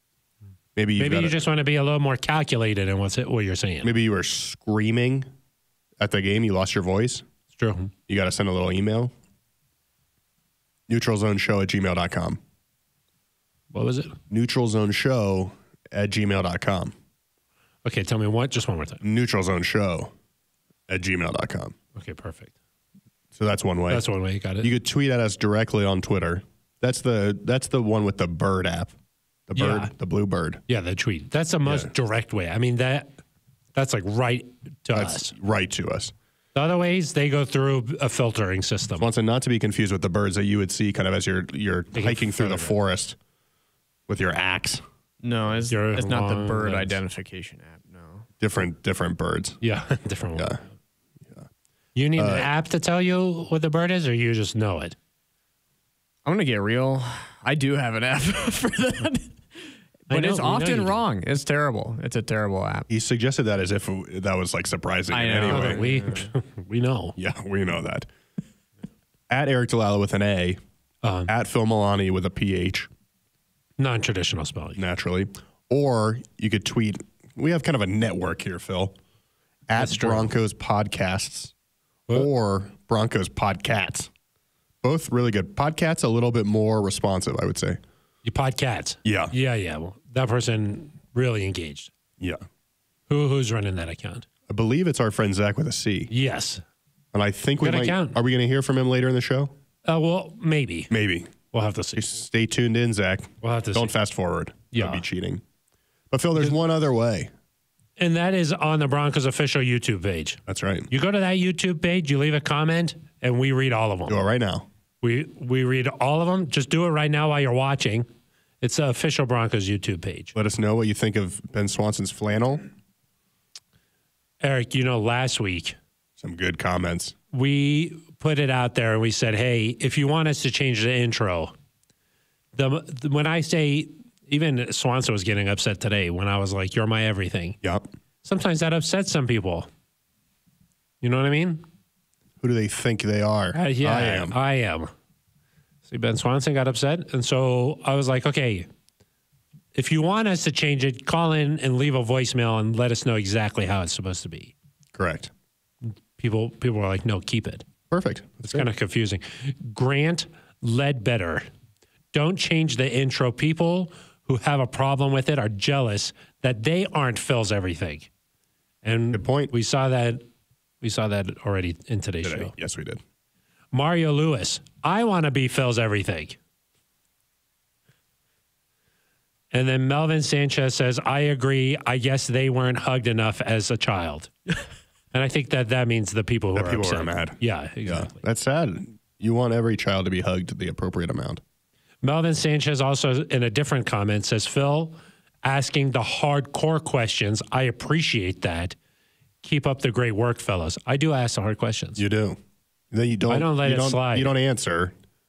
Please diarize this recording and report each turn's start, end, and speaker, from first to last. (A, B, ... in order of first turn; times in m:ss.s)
0:00.8-0:01.4 A
0:01.0-0:03.9 B
0:03.8-0:05.3 A
0:06.0-0:07.3 A
0:07.5-0:07.9 B
0:08.1-0:09.1 A
0:10.9-0:12.4 A
0:13.7-0:14.2 B
0:14.3-0:17.0 A
0:17.8-0:19.0 B
0:19.0-0:20.1 A
0:20.9-0:21.8 A
0:22.0-0:22.5 B
0:23.4-0:24.0 A
0:23.9-0:24.7 B
0:24.6-0:28.9 A
0:29.5-0:30.6 A
0:29.6-0:29.9 B
0:30.7-0:33.2 B
0:31.6-0:31.9 A
0:33.8-0:35.3 B
0:34.9-0:36.1 A
0:36.6-0:39.1 B
0:39.0-0:43.2 A
0:41.9-0:42.8 B
0:44.1-0:44.8 A
0:45.2-0:48.3 C
0:45.7-0:47.0 B
0:48.4-0:49.6 A
0:49.6-0:50.5 B
0:50.4-0:50.6 A
0:52.0-0:55.0 B
0:52.2-0:52.5 A
0:56.2-1:02.9 C
1:00.1-1:01.0 B
1:02.9-1:05.8 A
1:05.1-1:06.3 C
1:05.4-1:07.2 B
1:07.2-1:08.1 A
1:09.3-1:10.6 A
1:11.0-1:11.3 B
1:11.3-1:12.9 A
1:13.8-1:14.8 B
1:14.8-1:19.0 A
1:19.7-1:21.5 A
1:19.8-1:20.3 B
1:22.1-1:24.1 A
1:24.8-1:27.8 A
1:28.2-1:31.9 B
1:29.0-1:29.3 A
1:33.1-1:34.3 B
1:34.5-1:36.1 A
1:36.1-1:36.6 B
1:37.1-1:39.5 A
1:37.6-1:38.2 B
1:39.9-1:40.9 B
1:40.9-1:41.4 A
1:41.5-1:42.0 B
1:42.0-1:45.4 A
1:43.4-1:43.9 B
1:44.7-1:45.0 B
1:46.1-1:47.3 A
1:48.0-1:54.2 B
1:50.5-1:50.9 A
1:54.1-1:54.7 A
1:55.0-1:58.1 B
1:58.6-2:00.3 B
2:00.4-2:02.7 A
2:04.4-2:05.8 B
2:06.2-2:07.2 A
2:07.3-2:11.5 B
2:12.5-2:17.6 B
2:18.2-2:19.7 B
2:21.0-2:21.6 B
2:22.4-2:24.4 A
2:23.5-2:24.9 B
2:25.9-2:28.7 B
2:29.8-2:34.5 B
2:35.0-2:35.3 A
2:36.2-2:37.6 B
2:37.9-2:38.7 A
2:38.5-2:41.5 B
2:42.1-2:48.1 B
2:48.8-2:50.2 B
2:49.1-2:49.5 A
2:50.8-2:52.5 B
2:52.2-2:53.0 A
2:53.7-2:56.4 B
2:59.5-3:04.3 B
3:05.1-3:08.2 B
3:06.6-3:11.4 A
3:12.0-3:18.8 B
3:19.4-3:22.0 B
3:22.0-3:22.4 A
3:22.9-3:24.9 A
3:23.3-3:24.3 B